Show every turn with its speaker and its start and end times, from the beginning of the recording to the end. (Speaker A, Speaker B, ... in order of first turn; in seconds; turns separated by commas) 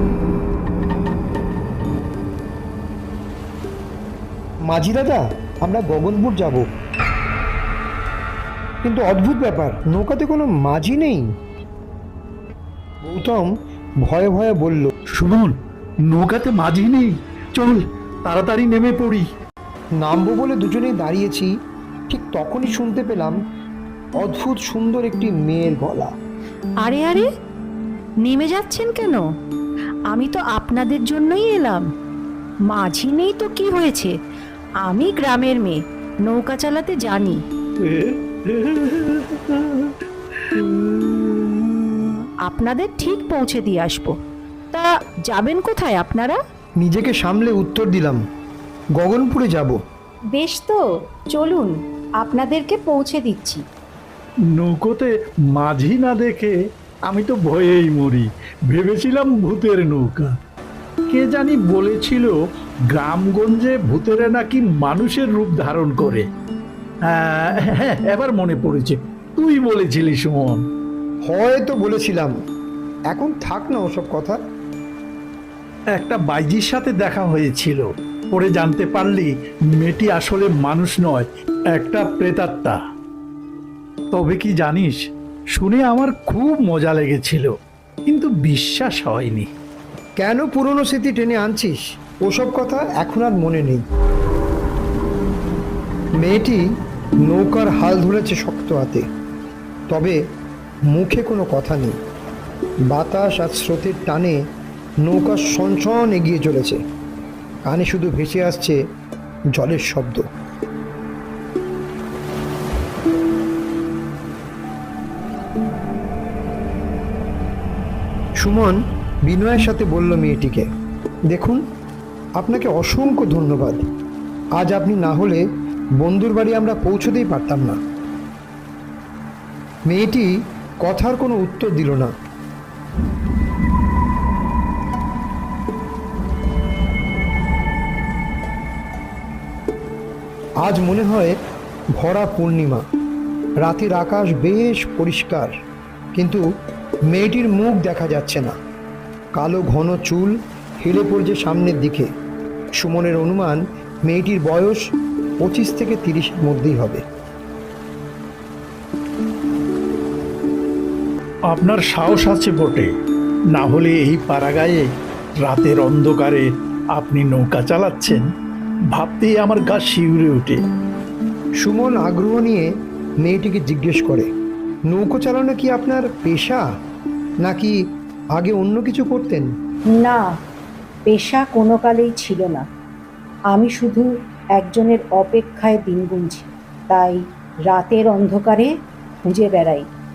Speaker A: 4.7-6.7, Speaker A: 8.8-11.3, Speaker A: 13.0-14.9, Speaker B: 15.2-15.6, Speaker B: 16.1-19.3, Speaker A: 20.0-21.5, Speaker A: 22.1-23.4, Speaker A: 24.2-26.1, Speaker C: 26.8-27.3, Speaker C: 28.2-29.2, Speaker C: 30.1-31.9, Speaker C: 32.7-34.1, Speaker C: 34.8-37.4, Speaker B: 37.8-41.8, Speaker C: 42.4-44.1, Speaker C: 44.7-46.4, Speaker A: 46.8-48.2, Speaker A: 49.0-49.8, Speaker C: 50.3-53.6, Speaker B: 54.5-56.5, Speaker B: 57.1-60.3, Speaker B: 61.1-62.4, Speaker B: 62.9-66.3, Speaker B: 67.1-70.6, Speaker A: 71.3-72.3, Speaker A: 73.1-74.4, Speaker B: 76.0-82.8, Speaker B: 84.1-85.0, Speaker B: 85.5-87.5, Speaker B: 88.1-89.5, Speaker A: 90.2-93.8, Speaker A: 96.2-96.7, Speaker A: 97.3-99.1, Speaker A: 99.9-100.2, Speaker A: 100.9-102.0, Speaker A: 102.9-104.4, Speaker A: 105.0-106.8, Speaker A: 107.7-108.8, Speaker A: 109.5-110.2, Speaker A: 118.4-120.7, Speaker A: 121.3-121.6, Speaker A: 122.4-123.8, Speaker A: 124.6-125.5, Speaker A: 126.0-127.8, Speaker A: 129.9-132.1, Speaker A: 140.6-141.4, Speaker A: 141.9-142.8, Speaker A: 143.6-145.5, Speaker A: 146.2-146.4, Speaker A: 147.1-148.6, Speaker A: 149.4-152.1, Speaker A: 152.8-154.8, Speaker A: 155.4-157.0, Speaker B: 161.5-162.9, Speaker B: 163.6-164.8, Speaker B: 165.4-168.2, Speaker B: 168.9-170.6, Speaker A: 171.6-172.7, Speaker A: 173.2-174.3, Speaker A: 174.9-176.6, Speaker A: 177.4-177.8, Speaker A: 178.4-179.5, Speaker C: 179.9-180.3, Speaker C: 181.1-182.7, Speaker C: 183.5-188.7, Speaker C: 189.2-189.9